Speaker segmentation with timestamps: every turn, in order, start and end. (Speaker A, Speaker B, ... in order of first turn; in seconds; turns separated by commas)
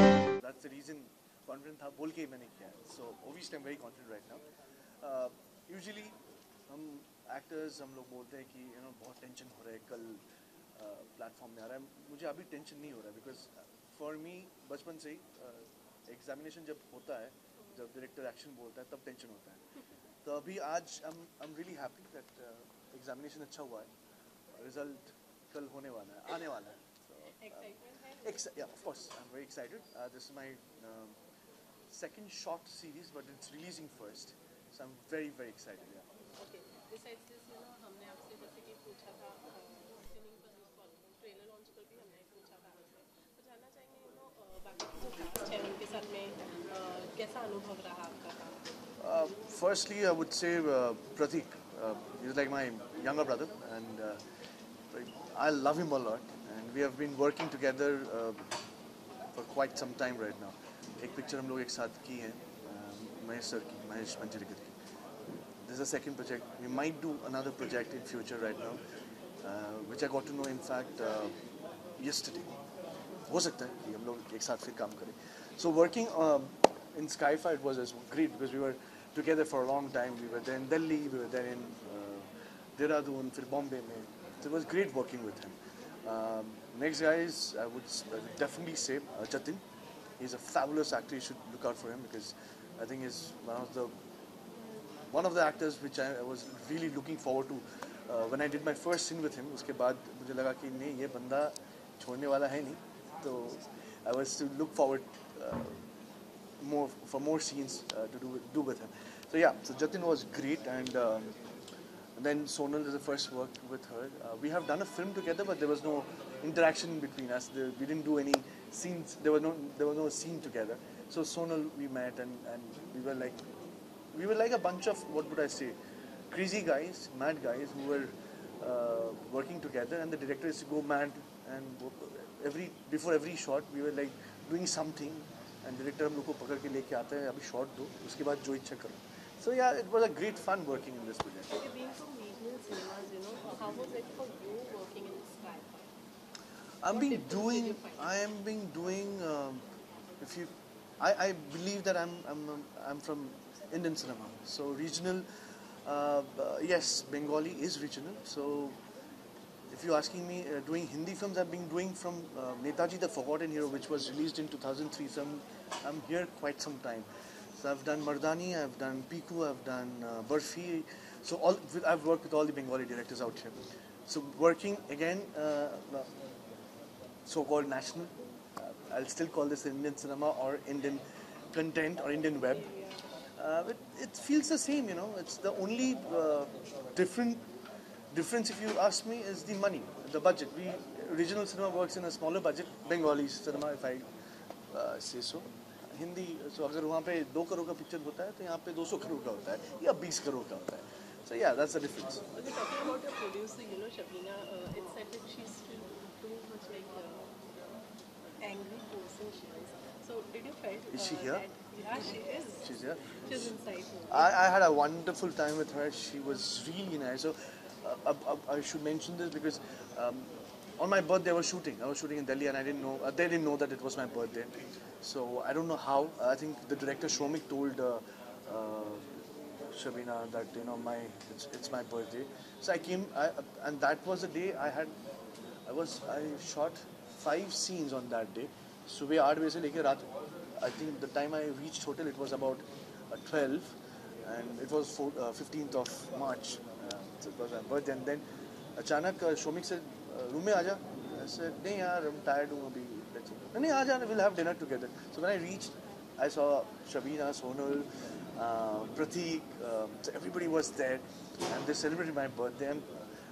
Speaker A: 0.3-4.4, Speaker A: 5.0-6.2, Speaker A: 6.7-10.2, Speaker A: 10.8-19.6, Speaker B: 17.6-17.8, Speaker A: 20.2-23.9, Speaker A: 24.5-31.2, Speaker B: 27.4-28.4, Speaker A: 31.9-36.1, Speaker B: 36.4-48.6, Speaker A: 49.0-54.2, Speaker A: 54.9-58.4, Speaker A: 59.3-64.7, Speaker A: 65.6-68.8, Speaker A: 69.4-71.3, Speaker A: 72.0-72.6, Speaker A: 73.2-89.6, Speaker A: 90.2-93.9, Speaker A: 95.1-105.8, Speaker A: 106.6-111.4, Speaker A: 112.2-123.4, Speaker A: 124.1-125.8, Speaker A: 126.3-141.5, Speaker B: 141.5-145.9, Speaker A: 146.8-149.6, Speaker B: 146.9-148.2, Speaker A: 150.2-155.2, Speaker A: 155.8-158.8, Speaker A: 159.7-176.1, Speaker A: 177.2-182.6, Speaker B: 182.4-183.0, Speaker A: 183.4-187.5, Speaker A: 188.1-194.1, Speaker A: 194.7-202.3, Speaker B: 202.3-207.6, Speaker B: 208.4-212.7, Speaker A: 210.9-211.4, Speaker A: 212.6-213.6, Speaker B: 213.2-214.3, Speaker A: 214.1-234.9, Speaker A: 235.7-248.2, Speaker A: 248.8-262.9